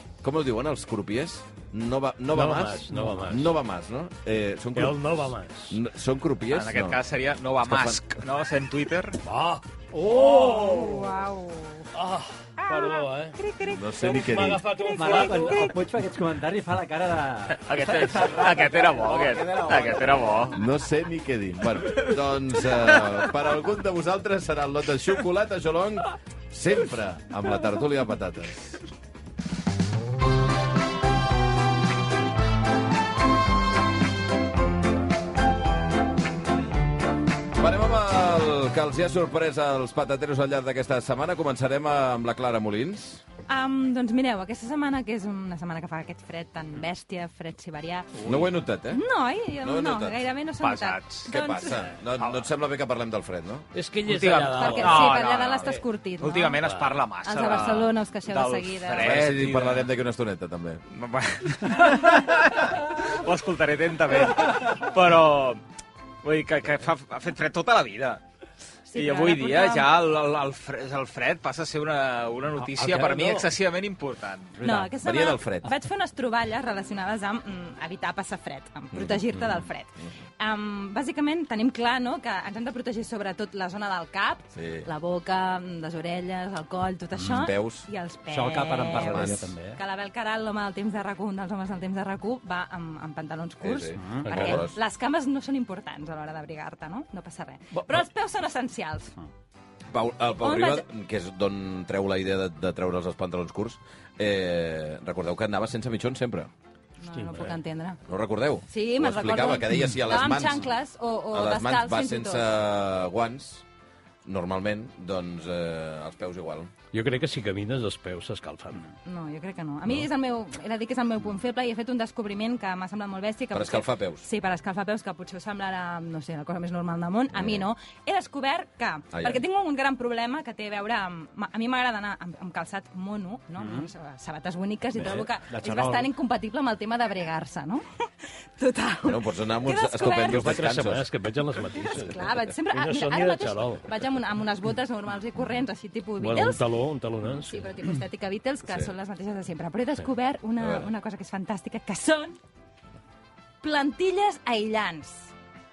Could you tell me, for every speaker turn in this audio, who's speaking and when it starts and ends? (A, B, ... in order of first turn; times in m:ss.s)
0:00.2-0:05.2 A
0:02.3-0:03.5 B
0:02.9-0:03.4 C
0:04.8-0:05.8 B
0:05.7-0:07.0 A
0:06.5-0:09.2 D
0:07.6-0:08.0 A
0:09.2-0:09.6 B
0:09.9-0:11.1 C
0:10.1-0:11.9 E
0:11.9-0:13.4 B
0:12.6-0:13.9 E
0:13.7-0:14.6 A
0:14.0-0:15.7 B
0:14.7-0:15.8 E
0:15.0-0:20.6 C
0:17.6-0:20.6 D
0:20.5-0:28.7 A
0:22.6-0:23.3 D
0:37.6-0:43.2 A
0:43.5-0:48.1 E
0:48.2-0:48.5 D
0:48.2-0:49.0 A
0:48.9-0:51.9 E
0:49.6-0:50.1 A
0:50.6-0:51.4 D
0:51.3-0:53.7 A
0:53.7-0:55.8 B
0:54.0-0:59.9 D
0:54.5-0:56.6 E
0:56.6-0:56.9 B
0:57.2-0:59.2 E
0:58.9-1:00.8 A
1:00.9-1:05.6 D
1:06.2-1:08.2 D
1:08.9-1:09.9 E
1:08.9-1:14.6 D
1:12.6-1:13.4 C
1:14.6-1:15.0 C
1:14.6-1:39.1 E
1:15.0-1:15.7 A
1:18.9-1:19.6 A
1:24.6-1:24.9 A
1:27.2-1:27.9 A
1:28.3-1:29.8 C
1:29.0-1:29.5 A
1:33.6-1:34.8 A
1:34.0-1:34.4 C
1:37.7-1:38.0 C
1:39.9-1:46.5 A
1:40.4-1:40.8 E
1:47.0-1:48.0 E
1:47.1-1:47.6 C
1:48.1-1:50.7 A
1:48.7-1:52.4 E
1:51.3-1:53.6 A
1:54.2-1:56.7 A
1:56.9-1:58.8 B
1:59.0-2:17.8 E
2:03.5-2:04.3 A
2:07.3-2:07.7 A
2:09.1-2:09.4 A
2:13.6-2:13.9 C
2:15.0-2:16.1 C
2:18.6-2:20.6 E
2:19.0-2:21.1 A
2:20.1-2:23.9 B
2:21.8-2:26.6 E
2:26.2-2:27.7 B
2:27.4-2:32.4 E
2:30.6-2:30.9 A
2:33.6-2:35.3 E